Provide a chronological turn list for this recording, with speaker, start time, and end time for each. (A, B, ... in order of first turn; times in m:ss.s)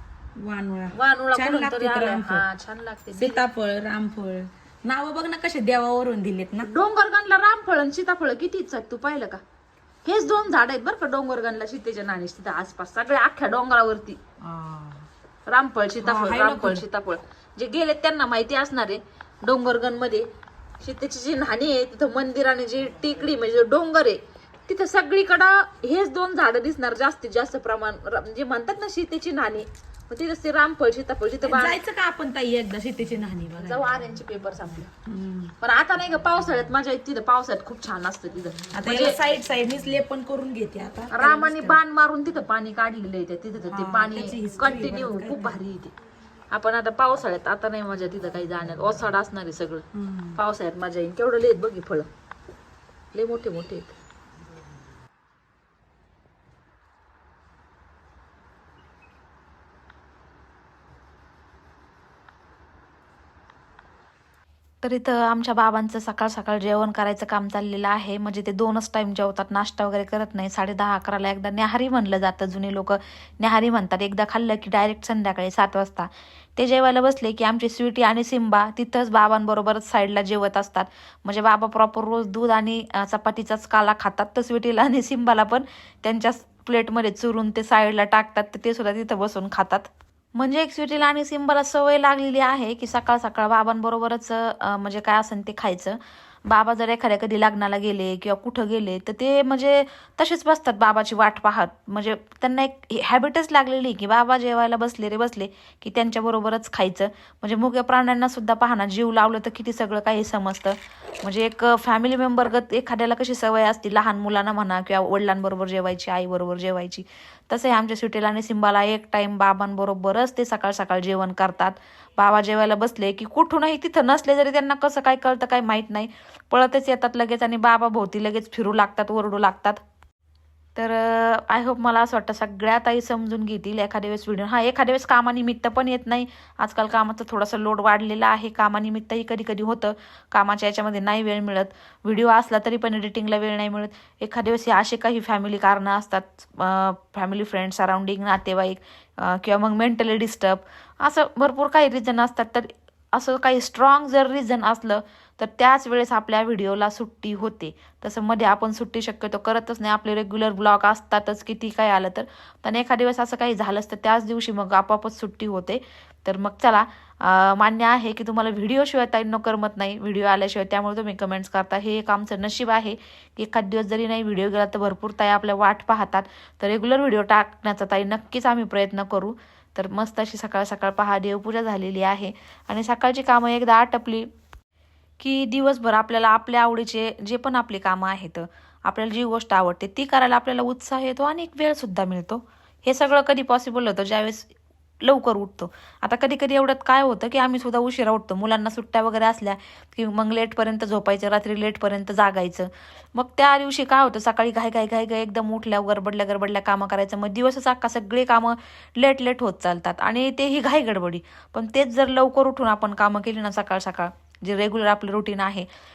0:00.4-0:02.5 A
0:01.0-0:03.4 B
0:03.1-0:06.7 A
0:06.6-0:09.4 B
0:10.0-0:14.2 B
0:14.4-0:15.1 A
0:15.5-0:20.3 B
0:16.0-0:16.9 A
0:20.8-0:31.8 B
0:31.4-0:34.0 A
0:33.6-0:34.9 B
0:35.1-0:35.5 A
0:35.6-0:39.2 B
0:38.7-0:41.8 A
0:41.1-0:45.9 B
0:43.6-0:45.6 A
0:46.5-0:49.8 B
0:49.9-0:50.4 A
0:50.4-0:52.1 B
0:53.1-0:53.9 B
1:04.8-2:09.8 C
2:10.8-3:04.3 C
3:05.2-3:14.5 C
3:15.0-3:35.7 C